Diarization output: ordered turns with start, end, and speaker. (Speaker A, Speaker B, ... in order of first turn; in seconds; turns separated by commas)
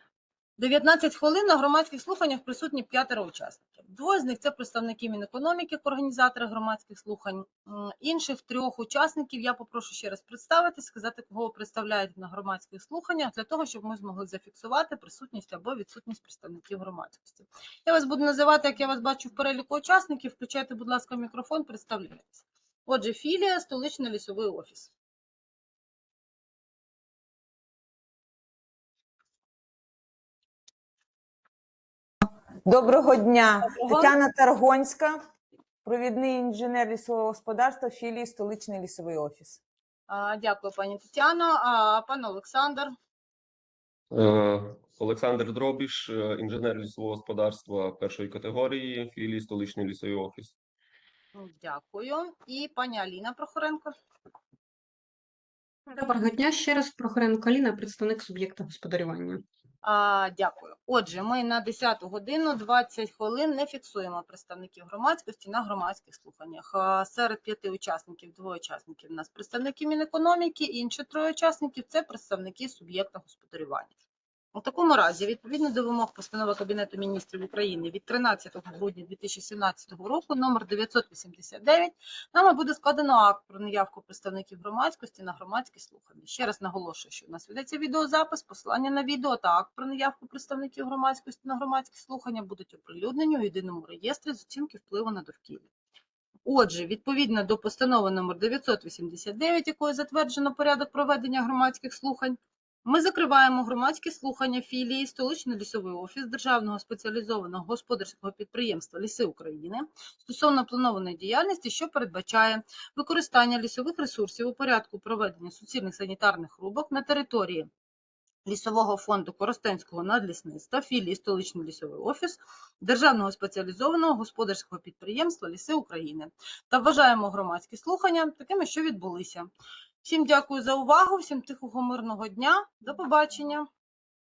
Speaker A: 0.6-24.9, Speaker B: 32.6-35.2, Speaker A: 33.6-34.1, Speaker B: 35.9-39.6, Speaker A: 40.1-42.9, Speaker C: 44.1-50.5, Speaker A: 51.3-53.9, Speaker D: 55.9-59.4, Speaker A: 59.8-73.9, Speaker A: 74.5-95.7, Speaker A: 96.4-117.7, Speaker A: 118.5-129.5, Speaker A: 130.0-133.7